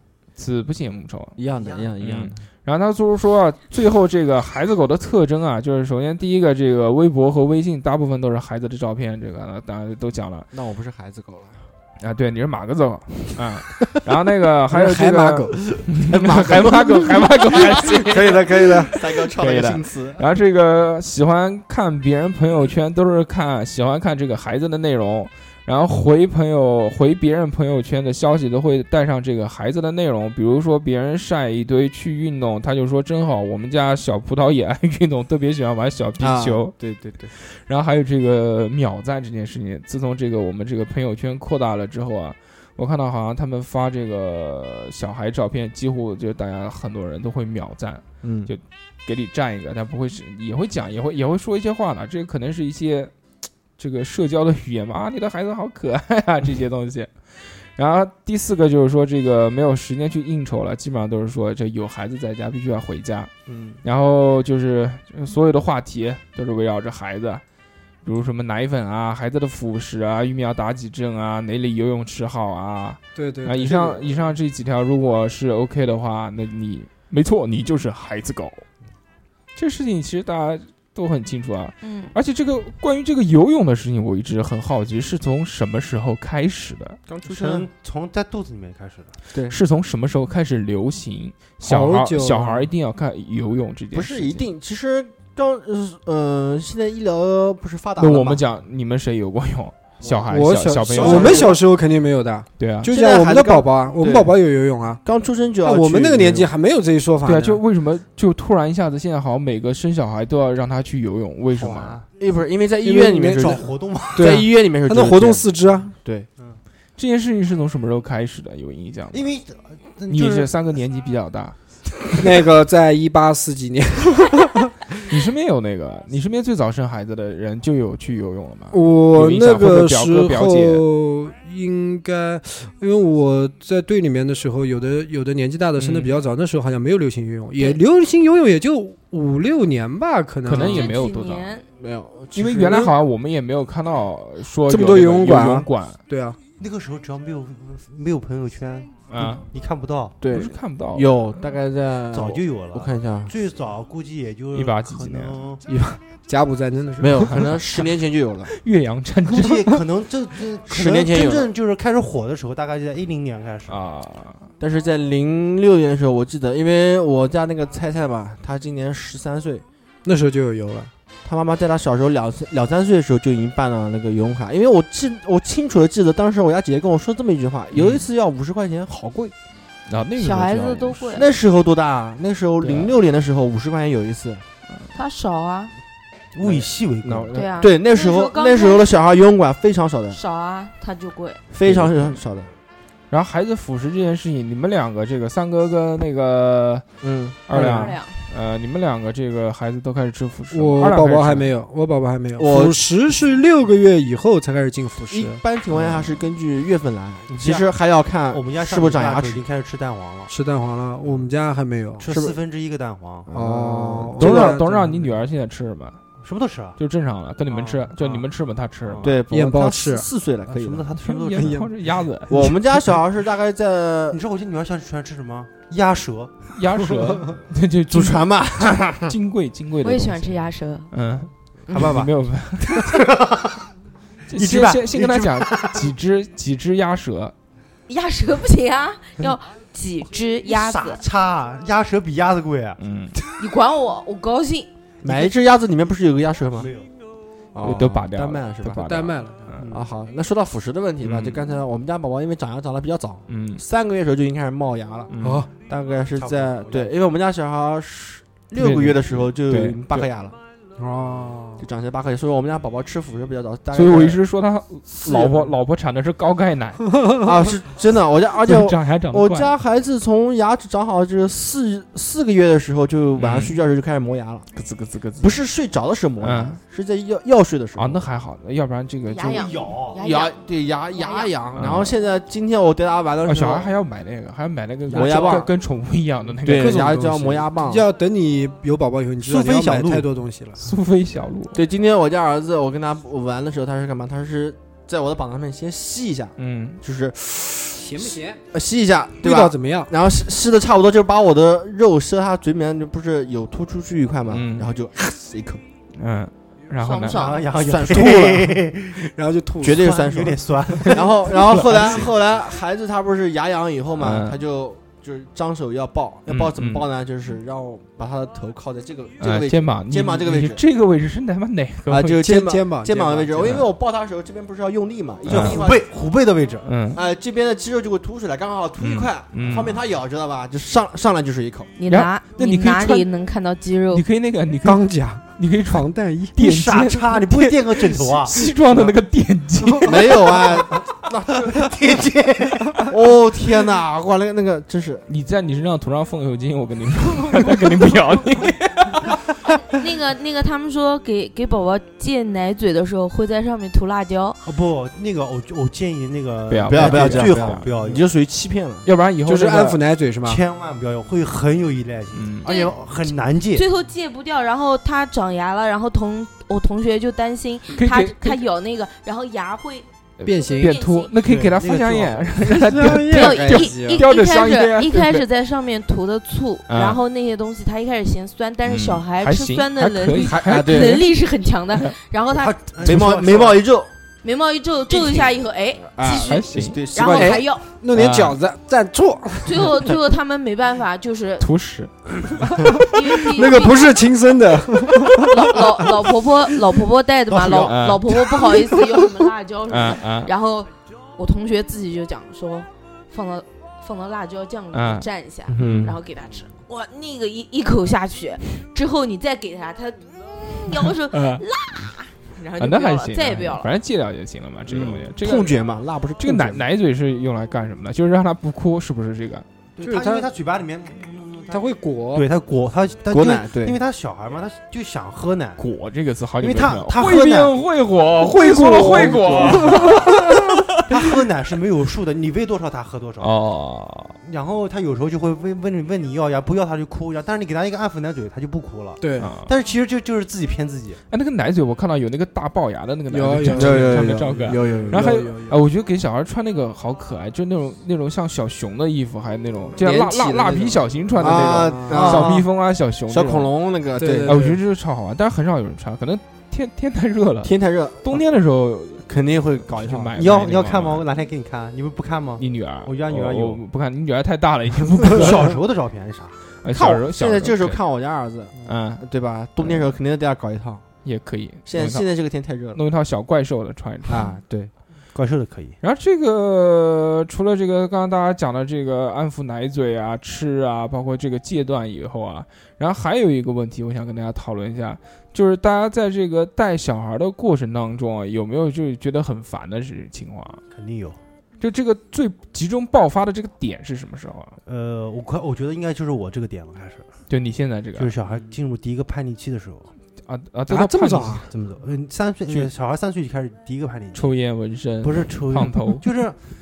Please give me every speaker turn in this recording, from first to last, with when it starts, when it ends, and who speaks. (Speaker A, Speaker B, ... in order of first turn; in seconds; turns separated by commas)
Speaker A: 0.4-1.4, Speaker B: 1.4-2.4, Speaker C: 1.6-1.9, Speaker A: 2.0-10.5, Speaker B: 10.5-11.6, Speaker A: 12.0-36.7, Speaker D: 14.7-15.6, Speaker B: 15.7-20.2, Speaker B: 36.2-37.3, Speaker A: 37.3-53.1, Speaker B: 48.2-48.5, Speaker A: 53.8-63.3, Speaker B: 63.5-63.8, Speaker A: 63.8-67.4, Speaker A: 68.0-78.6, Speaker D: 73.2-74.0, Speaker A: 79.5-87.0, Speaker E: 81.8-82.1, Speaker B: 87.1-87.7, Speaker C: 87.2-89.1, Speaker A: 89.5-94.5, Speaker D: 91.6-92.7, Speaker B: 93.9-98.4, Speaker A: 98.0-101.5, Speaker B: 100.0-100.3, Speaker D: 100.3-105.0, Speaker B: 100.9-101.6, Speaker A: 102.6-102.9, Speaker B: 102.9-104.4, Speaker B: 105.0-106.5, Speaker D: 105.6-107.6, Speaker A: 107.2-112.0, Speaker C: 111.5-112.0, Speaker B: 112.2-113.6, Speaker D: 112.8-113.6, Speaker C: 113.4-114.4, Speaker D: 114.1-116.0, Speaker B: 114.2-115.5, Speaker B: 116.0-116.3, Speaker A: 117.0-119.2, Speaker C: 119.1-120.5, Speaker A: 120.1-121.5, Speaker D: 122.2-124.7, Speaker A: 125.1-130.8, Speaker D: 128.7-140.9, Speaker A: 135.8-136.2, Speaker A: 140.4-141.5, Speaker E: 140.6-141.6, Speaker B: 141.8-142.9, Speaker A: 142.3-146.0, Speaker D: 144.7-146.4, Speaker C: 146.6-150.1, Speaker A: 149.1-149.4, Speaker B: 150.2-153.3, Speaker A: 150.3-151.1, Speaker C: 152.1-155.6, Speaker A: 154.5-155.4, Speaker D: 155.7-157.4, Speaker B: 157.0-158.5, Speaker A: 157.3-157.9, Speaker A: 158.5-159.8, Speaker C: 159.3-163.8, Speaker B: 160.7-161.5, Speaker A: 163.7-164.5, Speaker B: 164.6-169.6, Speaker D: 170.0-170.9, Speaker B: 171.2-179.3, Speaker A: 177.7-178.0, Speaker A: 179.9-181.2, Speaker E: 180.2-181.2, Speaker B: 181.1-184.4, Speaker A: 182.6-182.9, Speaker E: 184.9-185.7, Speaker C: 186.3-187.4, Speaker B: 186.4-190.2, Speaker E: 187.3-188.9, Speaker E: 190.1-191.4, Speaker B: 191.5-192.5, Speaker A: 191.6-192.2, Speaker A: 193.1-196.8, Speaker B: 197.0-197.4, Speaker A: 197.5-201.5, Speaker D: 197.5-197.9, Speaker E: 197.6-198.2, Speaker D: 200.5-205.4, Speaker B: 202.4-202.8, Speaker B: 205.1-209.4, Speaker C: 207.3-207.7, Speaker C: 208.3-210.3, Speaker D: 210.3-212.1, Speaker C: 212.0-213.3, Speaker B: 212.1-212.4, Speaker B: 213.3-214.6, Speaker D: 213.3-215.0, Speaker A: 214.2-216.0, Speaker C: 216.2-216.8, Speaker A: 216.8-219.1, Speaker C: 217.5-218.3, Speaker C: 218.8-219.2, Speaker B: 219.0-220.9, Speaker D: 219.3-220.1, Speaker C: 220.5-221.7, Speaker A: 221.0-222.3, Speaker D: 221.3-221.7, Speaker D: 222.3-222.5, Speaker B: 222.3-224.2, Speaker C: 224.1-226.3, Speaker A: 226.6-233.1, Speaker B: 227.9-229.1, Speaker E: 229.8-230.9, Speaker C: 231.7-232.1, Speaker C: 232.8-233.6, Speaker A: 234.3-237.3, Speaker C: 234.3-235.9, Speaker E: 237.9-241.0, Speaker C: 240.4-242.8, Speaker A: 242.8-243.1, Speaker E: 243.4-244.7, Speaker C: 245.0-245.3, Speaker B: 245.0-246.7, Speaker C: 246.5-246.9, Speaker B: 247.5-248.9, Speaker A: 247.6-249.7, Speaker D: 248.8-249.6, Speaker C: 249.6-249.9, Speaker B: 249.7-255.1, Speaker A: 251.0-251.4, Speaker A: 253.3-253.6, Speaker A: 255.1-255.4, Speaker D: 255.2-255.5, Speaker B: 255.7-260.4, Speaker C: 256.1-256.9, Speaker A: 258.6-260.1, Speaker D: 260.8-261.6, Speaker B: 261.6-264.2, Speaker A: 263.7-266.9, Speaker B: 265.0-265.5, Speaker D: 266.9-267.2, Speaker B: 267.2-274.4, Speaker A: 268.4-269.5, Speaker A: 273.1-273.6, Speaker A: 274.5-275.4, Speaker B: 275.2-278.0, Speaker A: 276.2-276.6, Speaker A: 277.8-279.7, Speaker E: 279.1-280.3, Speaker C: 279.2-280.0, Speaker B: 279.9-283.7, Speaker E: 280.9-281.3, Speaker A: 281.6-281.9, Speaker A: 283.2-286.9, Speaker B: 284.9-285.5, Speaker B: 286.4-287.8, Speaker D: 286.5-290.6, Speaker C: 289.2-290.1, Speaker A: 290.6-291.6, Speaker B: 291.5-305.6, Speaker A: 296.4-296.8, Speaker D: 297.8-298.4, Speaker D: 299.2-299.9, Speaker A: 304.3-304.7, Speaker A: 306.0-307.3, Speaker E: 306.8-307.4, Speaker C: 307.1-309.0, Speaker B: 307.5-308.6, Speaker D: 307.9-308.2, Speaker D: 309.0-310.1, Speaker B: 309.6-320.6, Speaker C: 309.9-311.1, Speaker A: 311.4-312.0, Speaker A: 313.9-314.4, Speaker A: 316.3-316.9, Speaker A: 319.2-322.2, Speaker B: 321.9-325.8, Speaker D: 322.2-323.6, Speaker A: 323.4-323.7, Speaker A: 325.2-325.6, Speaker C: 325.3-326.7, Speaker A: 326.6-327.0, Speaker B: 326.9-331.7, Speaker A: 328.8-329.8, Speaker E: 331.8-334.0, Speaker A: 331.9-333.1, Speaker A: 333.9-334.8, Speaker D: 334.6-336.4, Speaker A: 335.4-340.3, Speaker C: 336.4-338.5, Speaker B: 339.8-341.7, Speaker C: 341.4-342.8, Speaker B: 342.9-345.0, Speaker A: 345.1-349.2, Speaker E: 349.7-354.4, Speaker C: 354.4-358.1, Speaker A: 356.5-357.7, Speaker B: 356.7-358.9, Speaker A: 358.8-359.8, Speaker D: 359.2-360.4, Speaker C: 360.2-363.6, Speaker A: 362.1-362.5, Speaker E: 362.4-362.7, Speaker E: 363.5-369.9, Speaker A: 367.7-368.4, Speaker A: 370.2-375.2, Speaker D: 370.2-370.8, Speaker E: 370.4-371.1, Speaker C: 371.2-372.4, Speaker D: 372.5-374.0, Speaker E: 373.1-382.6, Speaker A: 376.7-377.0, Speaker A: 378.6-381.1, Speaker B: 380.2-381.1, Speaker C: 382.3-383.6, Speaker B: 382.8-383.9, Speaker E: 384.2-387.6, Speaker B: 384.9-385.3, Speaker B: 385.9-387.4, Speaker A: 386.1-386.8, Speaker D: 386.9-389.9, Speaker A: 387.9-388.4, Speaker E: 389.4-391.5, Speaker A: 391.4-392.4, Speaker D: 392.4-395.9, Speaker E: 392.9-394.0, Speaker E: 395.3-413.7, Speaker B: 397.4-397.7, Speaker C: 397.4-397.7, Speaker A: 397.5-398.1, Speaker A: 399.7-400.3, Speaker A: 404.7-405.9, Speaker B: 405.5-405.9, Speaker A: 411.1-411.4, Speaker A: 412.6-415.6, Speaker B: 414.7-416.6, Speaker A: 416.2-419.4, Speaker C: 419.8-421.6, Speaker D: 419.8-420.3, Speaker D: 421.5-422.3, Speaker C: 422.1-425.6, Speaker B: 423.1-423.8, Speaker A: 425.6-430.8, Speaker C: 426.4-427.6, Speaker D: 428.4-430.4, Speaker C: 428.9-430.0, Speaker C: 430.9-433.3, Speaker A: 433.2-434.2, Speaker C: 434.2-441.0, Speaker D: 439.0-439.3, Speaker A: 439.2-439.5, Speaker A: 441.1-453.5, Speaker D: 443.1-445.6, Speaker B: 443.5-445.1, Speaker B: 449.8-452.5, Speaker D: 451.2-452.2, Speaker C: 451.9-452.4, Speaker B: 453.1-454.4, Speaker D: 454.0-454.6, Speaker A: 454.2-459.1, Speaker B: 457.4-458.2, Speaker B: 459.1-460.1, Speaker A: 459.6-461.0, Speaker C: 460.1-463.6, Speaker A: 462.4-465.5, Speaker C: 465.1-466.4, Speaker A: 466.6-467.8, Speaker B: 466.7-470.8, Speaker A: 468.6-469.0, Speaker A: 469.6-469.9, Speaker A: 471.0-472.1, Speaker B: 471.6-472.8, Speaker A: 472.7-474.2, Speaker B: 474.1-474.7, Speaker C: 475.1-475.8, Speaker A: 475.8-490.6, Speaker C: 490.7-491.2, Speaker A: 491.6-494.6, Speaker C: 494.6-497.1, Speaker A: 497.3-498.1, Speaker C: 497.9-499.9, Speaker A: 500.3-501.4, Speaker D: 500.8-501.4, Speaker C: 500.8-504.3, Speaker A: 504.1-506.0, Speaker C: 505.0-506.4